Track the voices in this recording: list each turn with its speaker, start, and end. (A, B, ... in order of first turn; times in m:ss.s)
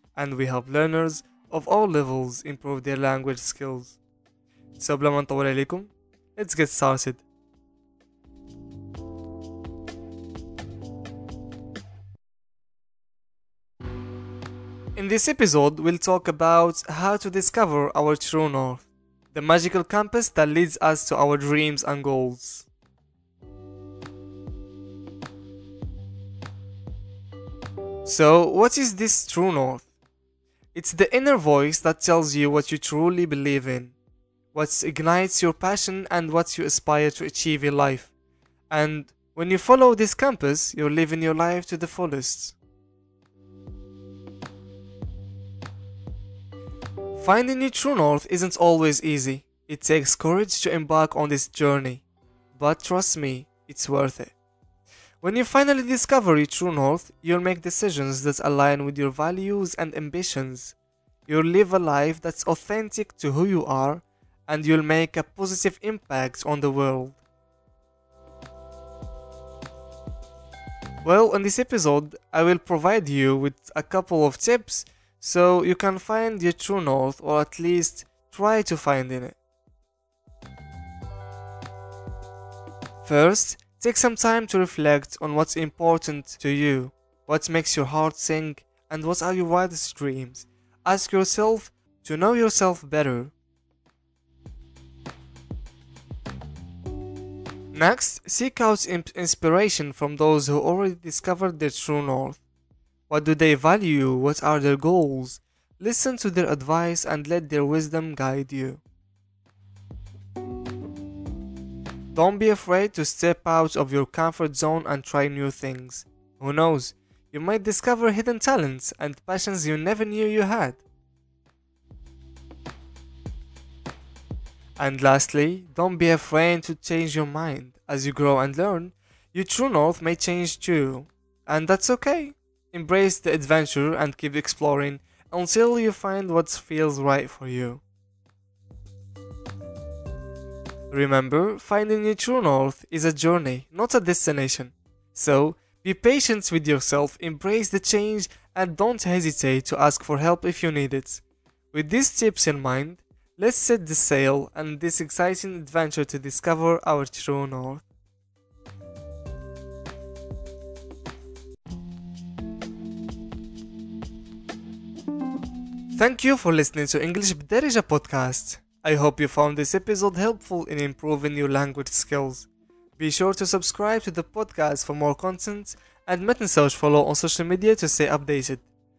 0:00.1-0:04.0 A
0:04.8-0:07.2 A
0:14.9-0:22.7 A
0:28.0-0:29.9 A
0:30.7-0:34.0 A
0:34.5-0:38.1 A
0:38.7-0:42.6 A
0:47.2-0:54.3 A
0:55.2-1:00.7 A
1:01.3-1:07.2 A
1:11.0-1:19.4 A
1:23.0-1:33.3 A
1:37.7-1:42.4 A
1:43.1-1:48.8 A
1:52.1-2:00.8 A
2:04.8-2:17.8 A
2:20.9-2:37.8 A
2:45.9-2:58.7 A